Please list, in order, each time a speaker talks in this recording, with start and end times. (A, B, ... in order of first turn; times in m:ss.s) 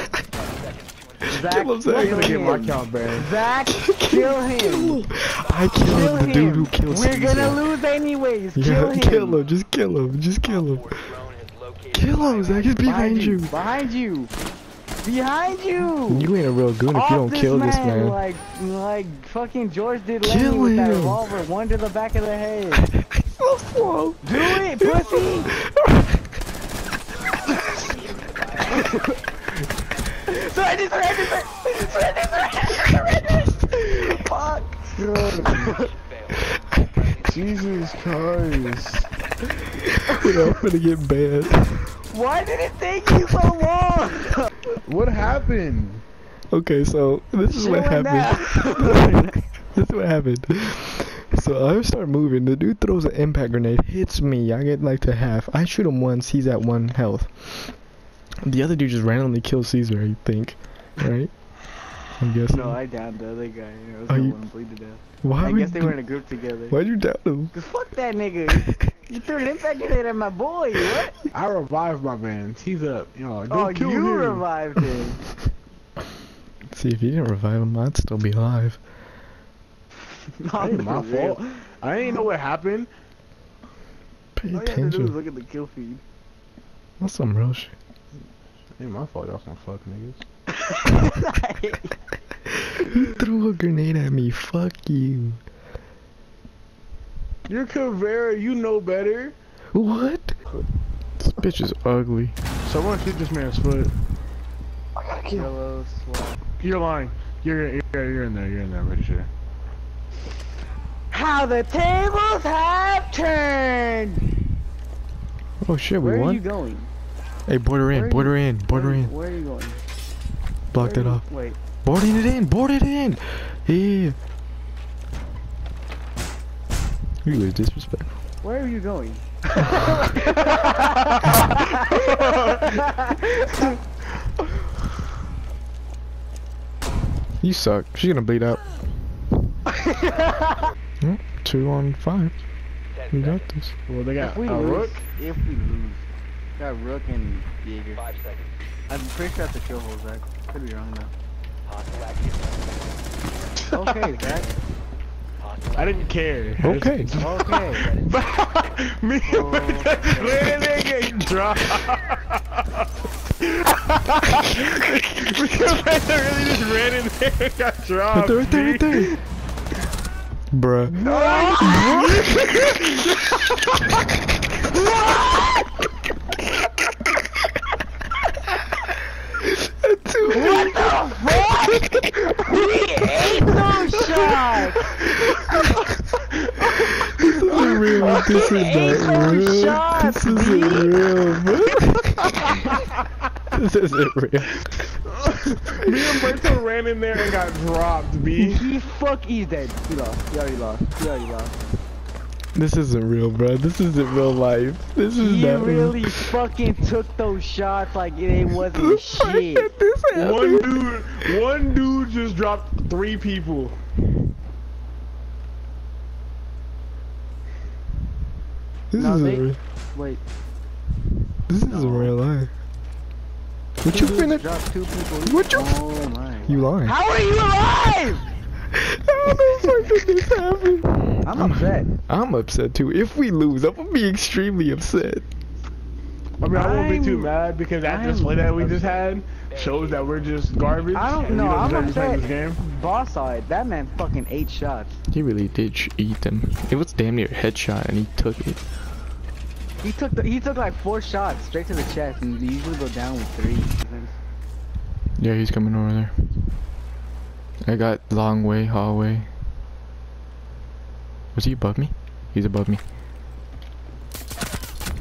0:00.3-0:01.6 A
0:01.3-0:02.4 B
0:01.3-0:05.1 C
0:01.9-0:03.3 D
0:03.8-0:07.6 B
0:05.4-0:06.0 A
0:05.8-0:09.4 C
0:08.6-0:11.1 B
0:10.4-0:12.8 A
0:11.9-0:13.6 B
0:12.8-0:14.3 C
0:15.0-0:16.3 C
0:16.1-0:18.2 B
0:16.9-0:22.9 C
0:20.2-0:21.2 B
0:23.0-0:26.2 B
0:24.2-0:25.5 C
0:27.5-0:29.6 A
0:28.7-0:29.2 C
0:30.3-0:34.9 C
0:31.7-0:34.3 A
0:35.0-0:35.8 D
0:35.7-0:38.2 A
0:37.3-0:39.1 D
0:40.1-0:42.0 B
0:42.1-0:44.5 C
0:44.8-0:46.0 D
0:46.5-0:49.1 B
0:47.5-0:49.4 C
0:49.7-0:57.8 B
0:58.4-1:01.3 B
1:02.1-1:02.8 B
1:02.5-1:06.8 C
1:04.1-1:04.4 B
1:05.2-1:06.0 B
1:06.7-1:07.5 B
1:07.5-1:11.2 C
1:11.3-1:14.4 D
1:13.5-1:15.2 C
1:16.7-1:18.8 B
1:20.3-1:21.7 C
1:20.6-1:22.9 D
1:24.4-1:25.2 B
1:24.5-1:26.0 C
1:27.0-1:27.7 B
1:28.8-1:30.2 D
1:30.5-1:32.0 C
1:32.7-1:35.4 B
1:37.5-1:39.4 D
1:39.7-1:40.5 B
1:41.2-1:42.4 B
1:42.6-1:43.9 D
1:45.0-1:45.5 B
1:45.3-1:46.4 C
1:46.6-1:49.3 D
1:51.1-1:54.4 C
1:55.6-1:56.4 B
1:56.0-1:56.9 C
1:57.5-1:59.1 B
1:57.9-1:59.8 C
2:00.7-2:01.3 B
2:00.8-2:01.6 C
2:01.8-2:04.2 B
2:07.2-2:08.1 B
2:08.4-2:10.9 C
2:11.2-2:12.7 D
2:11.6-2:13.7 C
2:17.4-2:18.6 B
2:19.8-2:20.5 C
2:21.0-2:22.4 B
2:22.9-2:23.6 A
2:23.1-2:23.7 B
2:23.9-2:25.0 D
2:24.2-2:28.0 C
2:28.0-2:28.5 A
2:28.9-2:31.1 C
2:31.6-2:32.8 A
2:33.7-2:34.5 C
2:35.4-2:36.2 A
2:35.8-2:42.9 D
2:36.6-2:37.1 B
2:37.2-2:37.9 C
2:37.8-2:38.3 A
2:39.2-2:40.5 C
2:43.4-2:49.1 D
2:48.1-2:49.2 B
2:50.5-2:51.0 B
2:50.9-2:52.9 D
2:51.0-2:52.2 C
2:51.6-2:52.3 B
2:54.7-2:55.7 C
2:59.4-3:01.0 B
3:00.3-3:05.1 C
3:07.0-3:12.6 B
3:07.5-3:11.2 C
3:13.5-3:15.0 B
3:15.1-3:18.6 D
3:18.4-3:21.6 C
3:22.5-3:26.3 B
3:25.2-3:29.7 C
3:28.7-3:31.3 B
3:30.2-3:33.8 D
3:38.9-3:39.6 B
3:39.0-3:40.2 C
3:41.5-3:42.5 B
3:41.6-3:42.1 C
3:43.8-3:44.5 B
3:43.9-3:48.3 C
3:45.2-3:45.9 B
3:46.4-3:47.0 B
3:48.7-3:55.2 B
3:49.3-3:49.8 A
3:51.2-3:51.9 C
3:56.4-4:02.6 D
3:56.5-3:58.6 C
3:58.6-4:02.3 A
4:00.9-4:05.0 C
4:05.1-4:08.6 B
4:09.8-4:14.2 C
4:15.2-4:16.6 B
4:17.6-4:19.3 B
4:21.3-4:22.8 B